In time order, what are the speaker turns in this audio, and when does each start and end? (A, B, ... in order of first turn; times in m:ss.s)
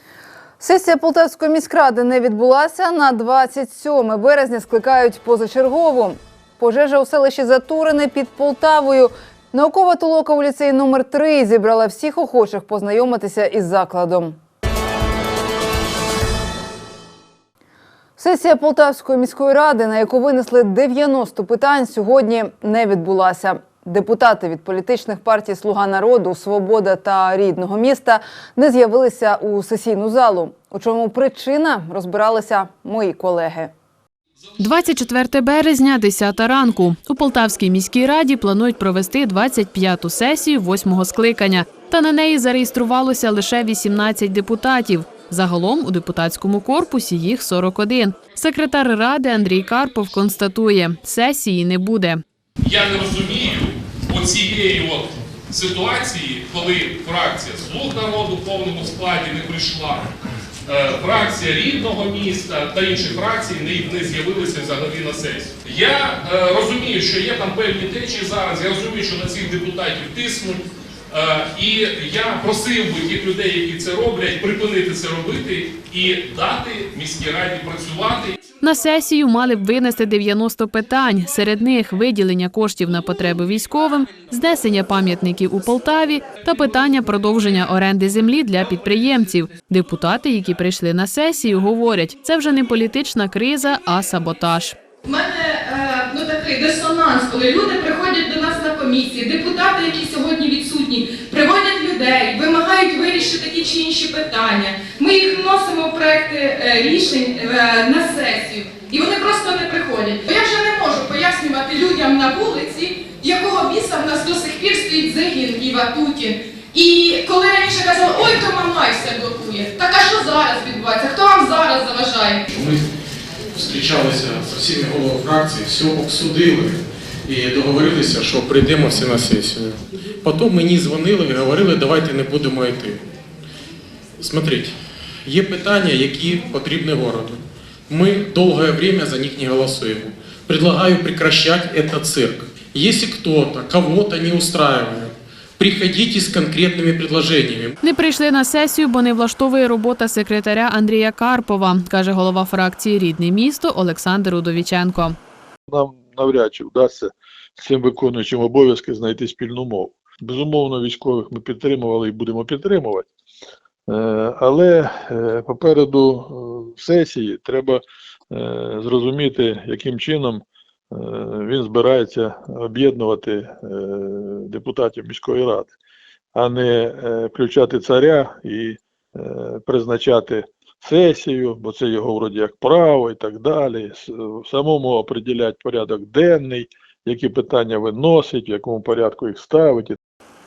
0:00.6-0:14.4 A
0:18.2-0:33.7 A
0:34.6-0:52.2 B
0:52.6-1:00.1 C
1:00.7-1:18.3 C
1:18.6-1:34.8 B
1:35.0-2:02.4 D
2:02.5-2:02.9 E
2:03.5-2:13.0 E
2:14.2-2:27.8 E
2:27.8-2:35.2 B
2:35.7-2:43.1 F
2:43.9-2:55.7 F
2:56.4-3:10.0 F